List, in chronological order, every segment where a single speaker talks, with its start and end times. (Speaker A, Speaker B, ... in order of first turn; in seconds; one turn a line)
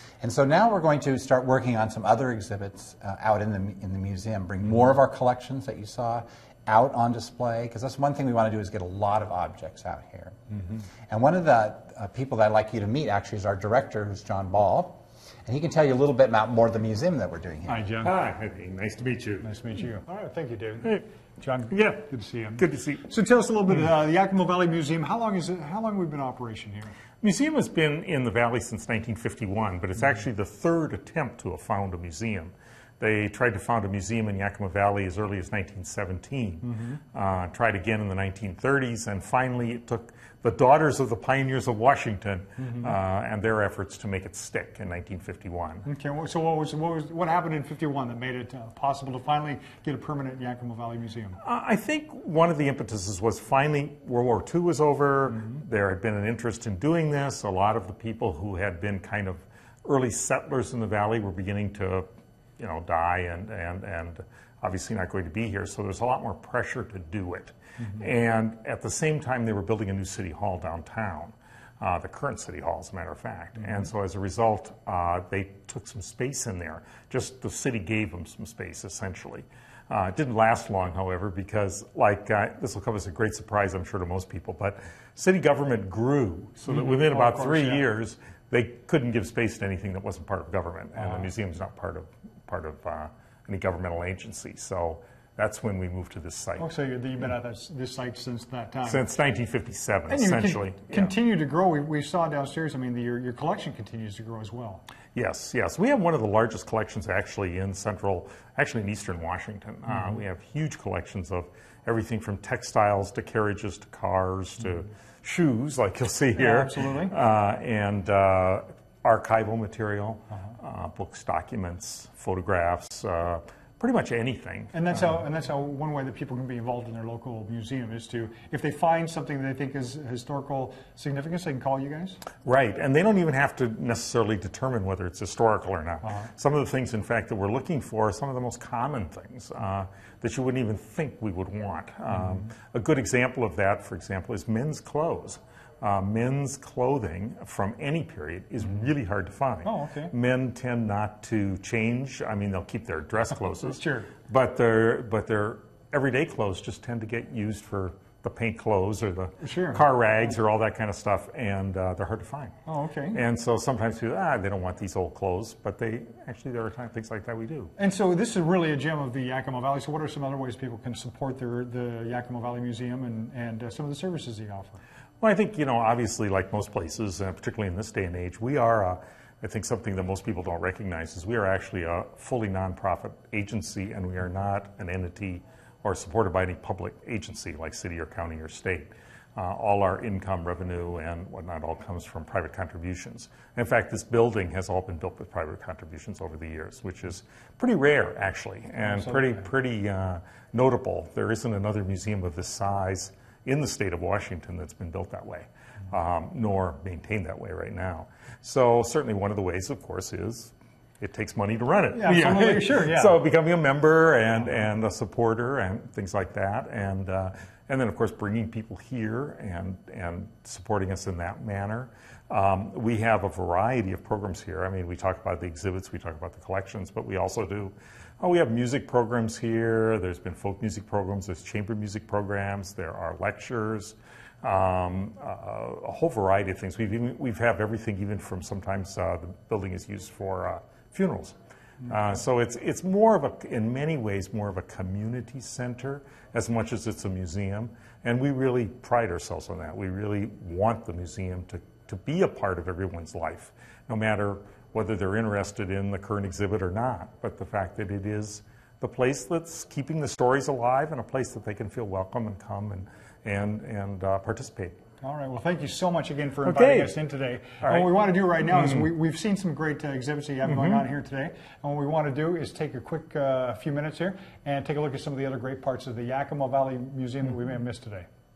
Speaker A: 0.2-10.4
Speaker A: 11.1-17.9
Speaker B: 17.6-18.1
Speaker C: 18.0-19.5
Speaker B: 19.4-26.9
Speaker C: 22.6-23.0
Speaker C: 27.2-45.9
Speaker B: 36.6-37.0
Speaker B: 42.6-42.9
Speaker B: 45.9-51.4
Speaker C: 51.4-96.7
Speaker B: 86.7-87.8
Speaker B: 91.0-91.3
Speaker B: 96.6-99.0
Speaker C: 98.9-101.2
Speaker B: 100.1-104.8
Speaker C: 105.1-125.2
Speaker B: 109.9-110.2
Speaker B: 116.3-117.1
Speaker B: 124.7-132.2
Speaker C: 132.4-162.5
Speaker B: 136.0-136.3
Speaker B: 149.6-150.1
Speaker B: 153.6-154.1
Speaker B: 159.4-159.8
Speaker B: 162.7-163.2
Speaker C: 163.1-167.7
Speaker B: 167.8-174.8
Speaker C: 175.2-264.8
Speaker B: 198.8-199.4
Speaker B: 211.9-213.2
Speaker B: 265.0-278.1
Speaker C: 266.4-267.0
Speaker C: 267.6-268.9
Speaker C: 270.4-270.9